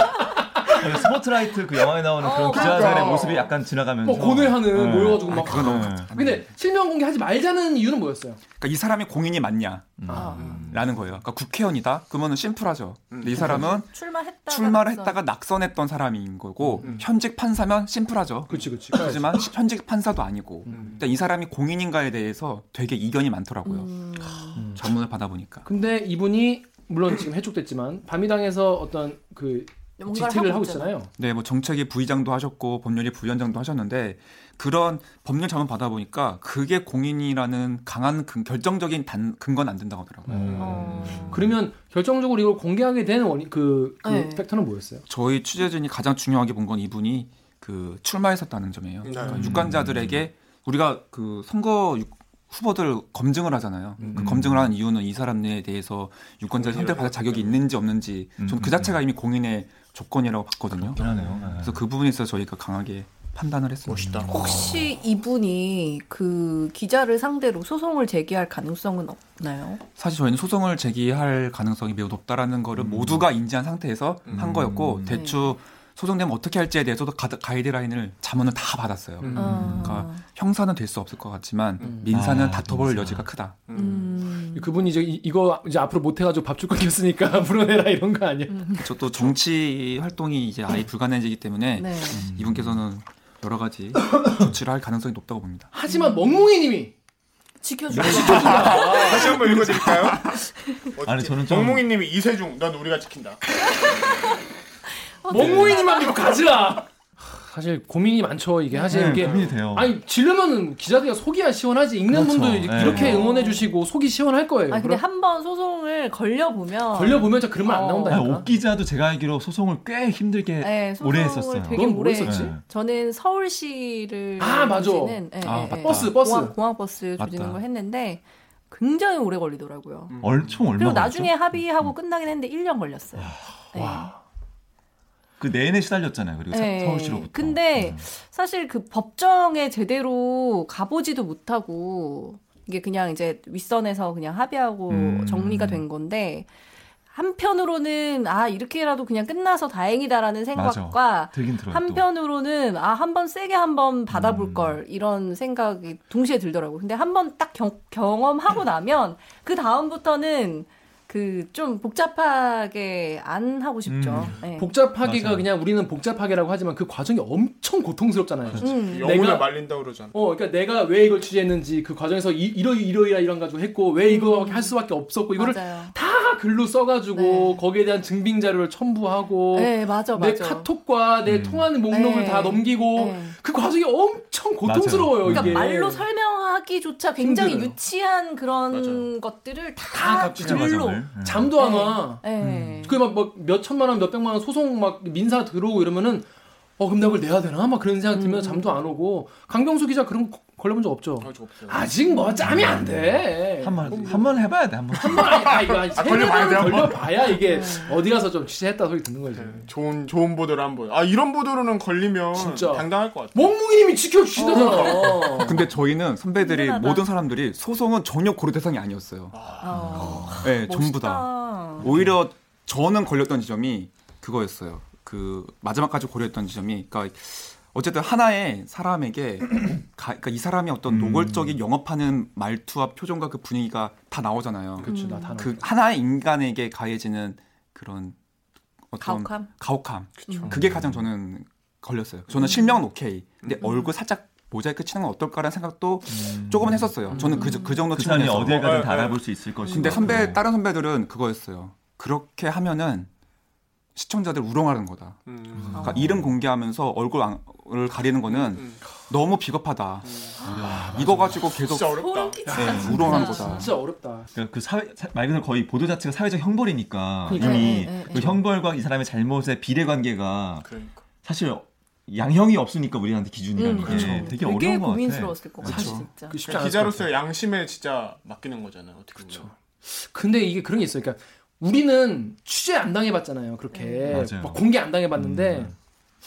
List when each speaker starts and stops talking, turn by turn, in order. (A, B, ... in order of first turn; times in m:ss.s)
0:00.7-0:06.1 A
0:02.2-0:03.3 B
0:02.4-0:03.5 C
0:04.0-0:08.4 D
0:05.2-0:06.4 E
0:08.6-0:13.9 E
0:10.0-0:10.6 A
0:10.1-0:10.5 D
0:10.1-0:10.6 B
0:10.4-0:10.8 C
0:13.1-0:13.6 C
0:13.3-0:13.7 D
0:13.6-0:15.2 B
0:14.5-0:23.9 E
0:18.5-0:19.3 D
0:20.6-0:21.0 D
0:23.6-0:24.6 B
0:24.6-0:24.8 D
0:24.7-0:25.6 E
0:25.6-0:31.1 D
0:30.0-0:30.9 B
0:31.2-0:41.2 E
0:40.3-0:45.0 D
0:40.5-0:41.1 C
0:40.6-0:41.4 B
0:40.6-0:41.4 A
0:44.0-0:44.4 B
0:45.1-1:04.2 E
0:49.0-0:49.5 C
0:49.2-0:49.7 D
0:49.4-0:50.2 A
0:54.0-0:54.4 C
0:54.2-0:54.7 A
0:56.5-0:57.6 C
0:58.4-0:59.0 A
1:01.0-1:01.8 A
1:01.0-1:01.4 C
1:03.8-1:04.6 C
1:04.0-1:04.9 A
1:04.3-1:09.8 B
1:10.0-1:23.6 E
1:12.8-1:13.2 A
1:14.2-1:14.6 C
1:14.3-1:15.2 A
1:15.1-1:15.5 B
1:19.2-1:19.8 D
1:19.3-1:20.2 B
1:19.6-1:19.9 A
1:21.8-1:22.1 D
1:22.1-1:23.3 A
1:23.7-1:24.1 C
1:23.7-1:24.7 B
1:24.5-1:28.8 D
1:28.5-1:28.8 B
1:28.8-1:35.7 E
1:31.8-1:32.2 B
1:32.2-1:32.8 A
1:35.7-1:36.9 D
1:35.9-1:36.5 B
1:37.6-1:39.4 B
1:37.9-1:38.4 A
1:37.9-1:39.4 D
1:38.0-1:40.4 C
1:38.1-1:40.3 E
1:40.9-1:43.4 C
1:41.0-1:41.9 A
1:43.7-1:44.3 B
1:45.2-1:46.3 B
1:45.3-1:55.0 D
1:48.7-1:49.2 B
1:48.9-1:50.0 A
1:49.1-1:49.6 C
1:52.1-1:53.3 A
1:52.8-1:53.7 B
1:54.7-1:58.2 B
1:56.9-1:58.5 D
1:58.1-2:02.6 A
2:00.6-2:14.1 B
2:01.7-2:02.6 D
2:04.4-2:05.2 D
2:05.4-2:06.1 E
2:05.8-2:06.5 D
2:07.2-2:07.6 E
2:10.1-2:10.6 C
2:10.2-2:11.9 A
2:13.7-2:14.2 D
2:15.4-2:18.0 A
2:16.5-2:26.5 B
2:24.9-2:25.8 A
2:27.1-2:44.7 B
2:30.5-2:32.0 A
2:34.1-2:34.8 A
2:43.8-2:44.4 A
2:44.6-2:49.5 D
2:45.0-2:45.5 A
2:48.6-2:49.1 B
2:48.6-2:50.1 C
2:50.1-3:06.1 D
2:54.0-2:54.7 B
2:55.4-2:55.9 B
2:57.1-2:57.6 B
2:59.5-3:00.7 B
3:01.2-3:01.7 A
3:01.9-3:03.4 B
3:04.6-3:05.6 A
3:05.3-3:11.0 B
3:07.2-3:07.7 D
3:08.7-3:09.1 C
3:09.9-3:12.3 D
3:10.4-3:11.5 A
3:11.6-3:13.0 B
3:12.4-3:12.9 A
3:12.8-3:16.2 D
3:16.8-3:24.2 D
3:18.1-3:18.7 B
3:21.2-3:21.9 C
3:22.1-3:22.5 B
3:22.4-3:25.5 A
3:23.9-3:24.3 C
3:24.9-3:29.6 D
3:25.1-3:27.3 C
3:27.5-3:27.9 B
3:29.4-3:33.5 C
3:32.3-3:35.7 D
3:34.4-3:35.4 B
3:34.5-3:35.1 C
3:35.3-3:39.5 E
3:36.4-3:37.0 B
3:39.3-3:40.4 C
3:39.6-3:41.9 B
3:39.8-3:40.3 A
3:40.4-3:58.2 E
3:41.8-3:42.2 A
3:50.9-3:51.6 A
3:54.8-3:55.6 D
3:54.8-3:55.4 B
3:58.9-4:09.0 E
3:59.0-3:59.5 B
4:00.2-4:00.6 C
4:00.5-4:01.0 A
4:02.4-4:02.7 B
4:06.1-4:07.0 A
4:07.1-4:07.4 D
4:07.2-4:07.8 B
4:07.9-4:10.4 A
4:08.5-4:09.2 C
4:09.6-4:10.2 B
4:09.6-4:13.1 E
4:13.9-4:15.2 E
4:15.3-4:16.0 C
4:15.6-4:16.3 A
4:15.7-4:23.7 E
4:18.3-4:18.9 C
4:20.1-4:20.4 C
4:20.4-4:21.5 A
4:21.6-4:22.8 C
4:21.9-4:23.6 B
4:22.4-4:24.3 D
4:24.3-4:30.7 A
4:27.3-4:28.3 D
4:27.3-4:28.3 B
4:30.6-4:31.0 C
4:31.2-4:35.9 A
4:33.6-4:36.4 B
4:33.8-4:34.2 C
4:35.6-4:37.1 D
4:35.6-4:36.1 E
4:36.4-4:39.5 C
4:39.2-4:45.7 D
4:43.7-4:44.2 B
4:44.1-4:44.6 A
4:45.2-4:45.7 A